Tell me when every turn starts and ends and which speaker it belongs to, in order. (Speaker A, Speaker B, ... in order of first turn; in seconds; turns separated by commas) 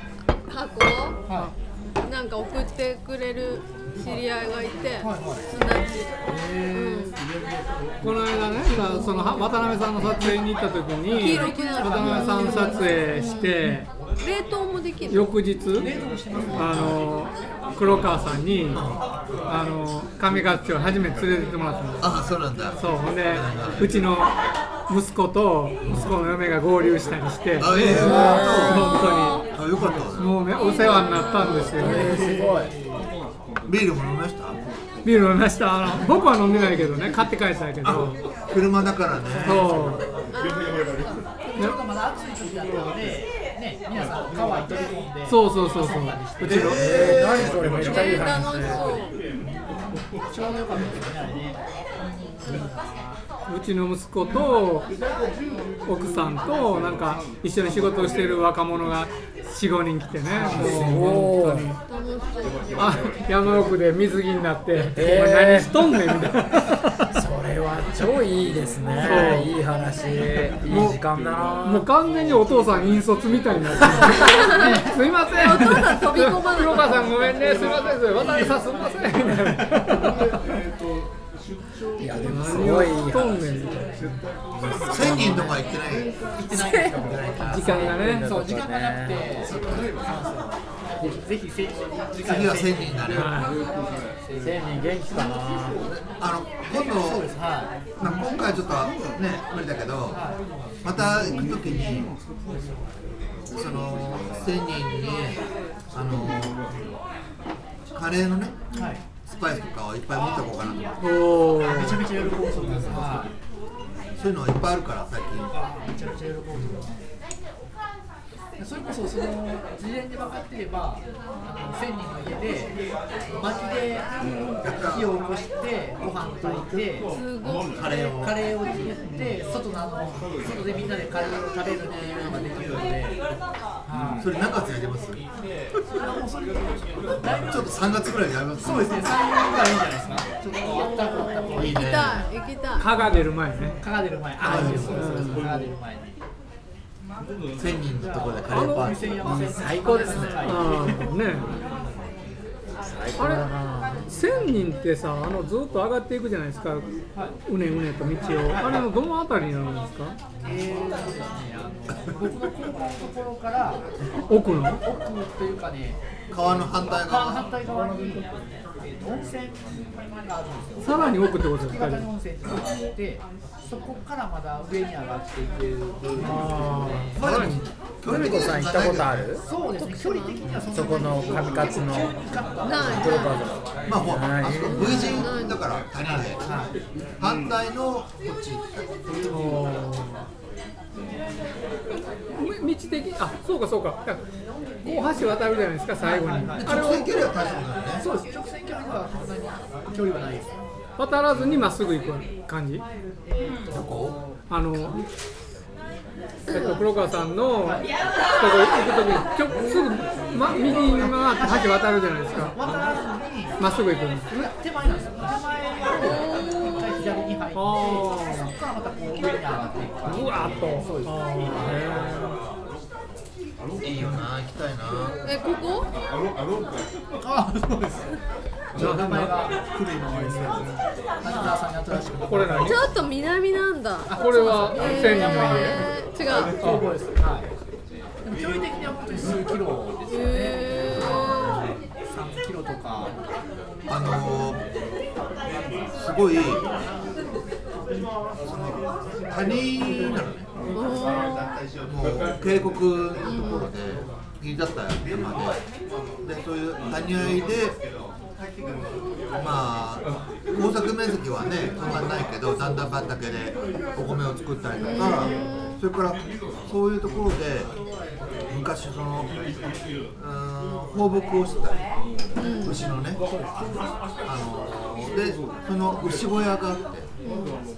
Speaker A: 0.4-1.2, Speaker B: 1.3-1.5, Speaker A: 2.0-6.1, Speaker B: 5.0-5.5, Speaker B: 6.3-7.2, Speaker A: 6.7-7.2, Speaker C: 8.0-13.9, Speaker A: 11.1-15.4, Speaker B: 11.4-13.2, Speaker C: 15.1-15.9, Speaker B: 15.7-17.0, Speaker C: 16.5-18.8, Speaker D: 18.7-19.0, Speaker C: 19.5-22.2, Speaker D: 22.0-24.0, Speaker C: 22.7-24.3, Speaker C: 24.9-29.4, Speaker D: 27.6-30.4, Speaker E: 27.8-29.1, Speaker A: 28.9-29.4, Speaker C: 30.2-32.1, Speaker A: 30.6-31.8, Speaker E: 31.5-32.7, Speaker B: 31.6-33.0, Speaker D: 33.7-34.6, Speaker C: 35.0-38.2, Speaker D: 37.9-39.9, Speaker C: 39.5-40.0, Speaker A: 40.3-41.2, Speaker B: 41.4-47.2, Speaker C: 45.3-46.8, Speaker D: 46.4-47.9, Speaker E: 46.5-48.9, Speaker A: 47.7-49.1, Speaker B: 50.3-51.6, Speaker B: 52.4-53.1, Speaker C: 53.5-54.9, Speaker C: 55.9-61.8, Speaker B: 60.3-61.1, Speaker E: 60.5-61.7, Speaker A: 61.9-62.8, Speaker C: 62.8-67.1, Speaker E: 64.8-66.1, Speaker E: 67.1-71.9, Speaker C: 69.0-69.5, Speaker C: 70.7-71.0, Speaker C: 71.6-80.1, Speaker B: 73.8-75.0, Speaker A: 74.2-77.7, Speaker B: 77.8-80.1, Speaker E: 82.0-84.0, Speaker C: 82.2-83.9, Speaker D: 84.6-86.1, Speaker E: 84.8-85.5, Speaker B: 86.3-93.5, Speaker A: 86.5-87.0, Speaker D: 87.0-87.6, Speaker E: 87.1-89.3, Speaker C: 87.5-88.4, Speaker D: 89.4-89.9, Speaker D: 92.2-93.3, Speaker C: 93.1-93.6, Speaker B: 94.2-94.7, Speaker E: 94.4-95.8, Speaker D: 95.8-97.3, Speaker B: 96.9-97.7, Speaker D: 98.0-100.2, Speaker B: 100.1-100.4, Speaker D: 100.8-102.1, Speaker D: 103.5-105.4, Speaker D: 105.9-106.7, Speaker D: 107.9-108.6, Speaker B: 108.7-109.0, Speaker D: 109.3-112.0, Speaker C: 111.0-112.0, Speaker B: 111.6-113.3, Speaker D: 112.8-113.3, Speaker D: 114.2-115.5, Speaker B: 115.5-117.0, Speaker B: 118.6-122.8, Speaker B: 123.3-127.1, Speaker D: 124.6-125.1, Speaker A: 127.2-127.8, Speaker D: 127.7-128.5, Speaker B: 128.2-133.2, Speaker B: 133.9-134.3, Speaker D: 134.2-135.2, Speaker B: 136.0-137.9, Speaker D: 137.2-139.1, Speaker B: 138.6-141.8, Speaker A: 140.8-142.9, Speaker D: 141.6-142.3, Speaker C: 142.8-143.8, Speaker B: 143.8-146.2, Speaker D: 144.4-145.3, Speaker C: 144.5-145.6, Speaker D: 147.6-149.3, Speaker B: 148.0-151.4, Speaker C: 148.5-148.9, Speaker E: 149.2-150.7, Speaker C: 150.4-151.5, Speaker E: 152.8-154.1, Speaker C: 153.2-153.5, Speaker C: 154.1-156.9, Speaker C: 157.5-160.2, Speaker B: 158.5-158.9, Speaker B: 160.4-163.8, Speaker C: 164.3-164.8, Speaker B: 164.7-177.2, Speaker D: 166.3-167.4, Speaker C: 170.8-172.1, Speaker C: 176.2-177.7, Speaker D: 177.2-179.3, Speaker E: 178.1-179.4, Speaker B: 179.5-183.5, Speaker A: 179.5-180.4, Speaker E: 180.7-185.3, Speaker A: 182.6-183.4, Speaker D: 183.9-186.4, Speaker A: 184.7-185.6, Speaker B: 186.0-186.8, Speaker D: 187.2-189.1, Speaker C: 189.3-190.2, Speaker C: 192.3-194.2, Speaker C: 194.8-197.1, Speaker B: 196.0-200.5, Speaker D: 196.6-198.1, Speaker C: 201.0-202.8, Speaker B: 203.2-204.4, Speaker D: 203.7-204.2, Speaker C: 204.5-205.0, Speaker A: 206.5-206.8, Speaker C: 206.5-207.9, Speaker B: 207.6-207.9, Speaker C: 208.4-212.6, Speaker B: 210.7-211.8, Speaker B: 212.3-213.6, Speaker C: 213.6-214.5, Speaker B: 214.3-221.8, Speaker A: 215.9-216.8, Speaker C: 217.5-218.5, Speaker C: 220.1-222.4, Speaker D: 223.8-225.2, Speaker A: 225.2-225.9, Speaker B: 227.2-228.2, Speaker C: 228.7-229.4, Speaker B: 228.7-230.7, Speaker B: 231.2-232.9, Speaker C: 232.2-232.9, Speaker A: 232.6-236.5, Speaker B: 234.1-235.9, Speaker C: 234.2-235.9, Speaker B: 236.4-237.5, Speaker C: 236.6-236.8, Speaker B: 238.2-241.4, Speaker A: 240.1-241.7, Speaker D: 241.3-241.8, Speaker B: 242.1-243.2, Speaker D: 243.9-244.6, Speaker D: 245.9-246.6, Speaker D: 248.4-250.5, Speaker A: 250.7-251.5, Speaker D: 251.8-255.6, Speaker A: 253.2-253.7, Speaker D: 256.2-257.8, Speaker D: 259.4-267.7, Speaker A: 264.8-265.8, Speaker D: 268.5-269.3, Speaker D: 270.2-271.9, Speaker A: 272.4-272.8, Speaker D: 272.6-273.2, Speaker B: 273.1-273.9, Speaker D: 274.3-277.1, Speaker A: 277.2-277.6